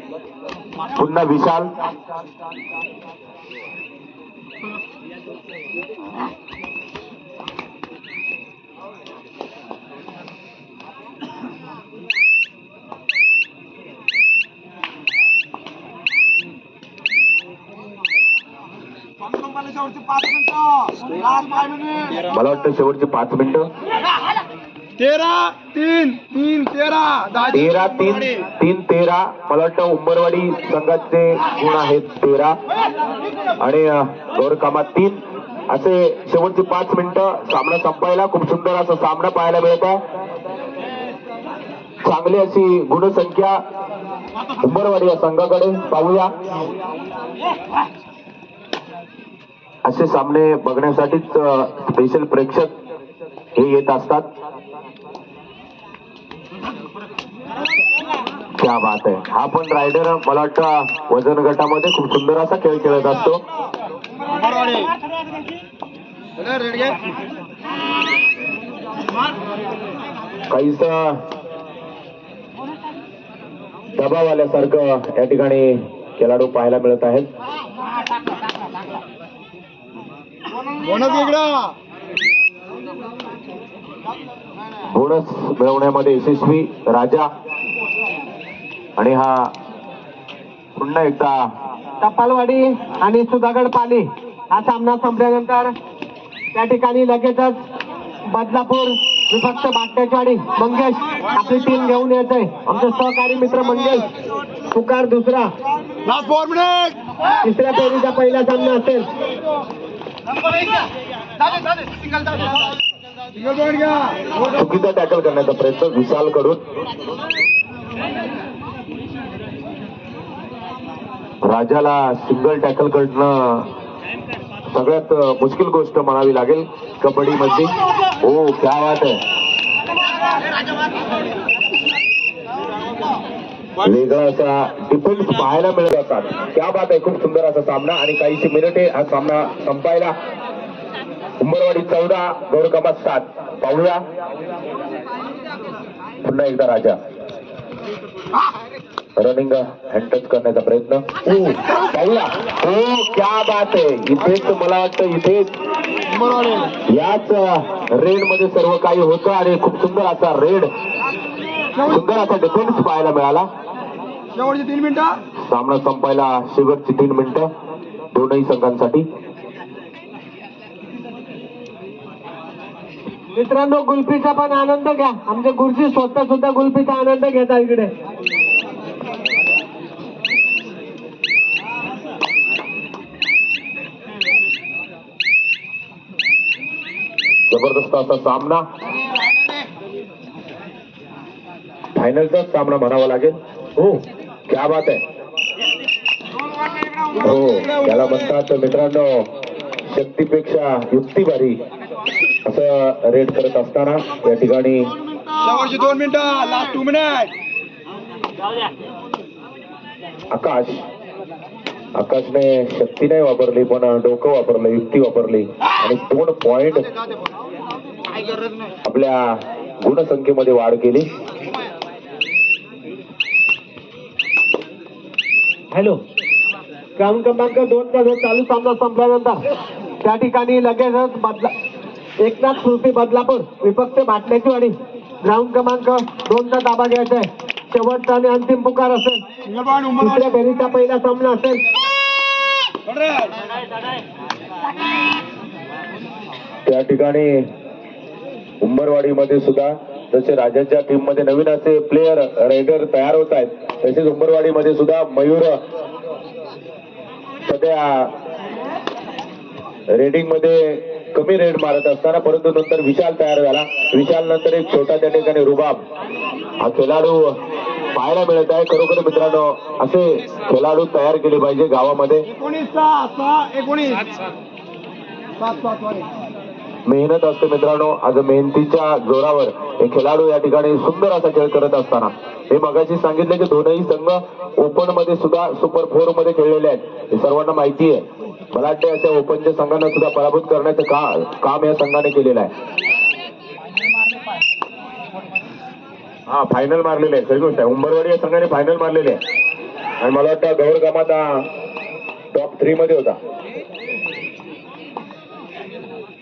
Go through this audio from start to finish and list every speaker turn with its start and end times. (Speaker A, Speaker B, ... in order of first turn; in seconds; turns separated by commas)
Speaker A: 0.9-1.7, Speaker B: 19.8-22.2, Speaker A: 22.3-23.7, Speaker B: 25.0-27.5, Speaker A: 27.5-32.6, Speaker A: 33.6-40.0, Speaker A: 42.0-43.6, Speaker A: 44.6-46.4, Speaker A: 49.9-52.7, Speaker A: 53.6-54.3, Speaker A: 58.6-63.4, Speaker B: 64.4-64.9, Speaker A: 70.5-71.2, Speaker A: 73.9-77.3, Speaker B: 80.8-81.7, Speaker A: 84.9-87.3, Speaker A: 89.0-89.5, Speaker A: 90.8-91.4, Speaker C: 92.0-95.7, Speaker C: 96.5-97.6, Speaker C: 98.3-104.1, Speaker C: 104.7-105.5, Speaker B: 106.0-107.0, Speaker C: 107.4-109.1, Speaker B: 113.4-114.2, Speaker A: 114.5-116.6, Speaker A: 121.4-123.7, Speaker A: 124.7-129.2, Speaker A: 133.8-140.2, Speaker A: 141.4-144.0, Speaker A: 146.2-147.0, Speaker A: 149.2-155.5, Speaker B: 156.2-156.7, Speaker A: 156.9-160.7, Speaker A: 161.8-163.5, Speaker B: 164.3-165.2, Speaker A: 165.4-167.5, Speaker A: 168.1-169.1, Speaker C: 173.3-177.9, Speaker A: 187.5-188.7, Speaker A: 191.9-193.9, Speaker A: 194.5-195.0, Speaker A: 197.1-199.3, Speaker A: 199.9-201.6, Speaker A: 202.5-204.9, Speaker B: 205.3-207.3, Speaker A: 210.3-210.8, Speaker A: 212.0-216.9, Speaker A: 218.8-221.1, Speaker C: 225.7-226.0, Speaker C: 227.0-229.4, Speaker C: 230.0-231.5, Speaker C: 232.2-239.2, Speaker B: 239.5-240.2, Speaker C: 239.9-241.6, Speaker B: 242.9-243.3, Speaker A: 246.7-247.4, Speaker A: 248.6-255.6, Speaker A: 257.4-258.1, Speaker A: 259.9-265.8, Speaker A: 266.6-267.3, Speaker A: 267.9-272.3, Speaker B: 272.3-274.1, Speaker B: 275.4-276.1, Speaker A: 276.9-292.5, Speaker A: 296.3-299.2, Speaker A: 300.0-301.5, Speaker A: 302.3-303.2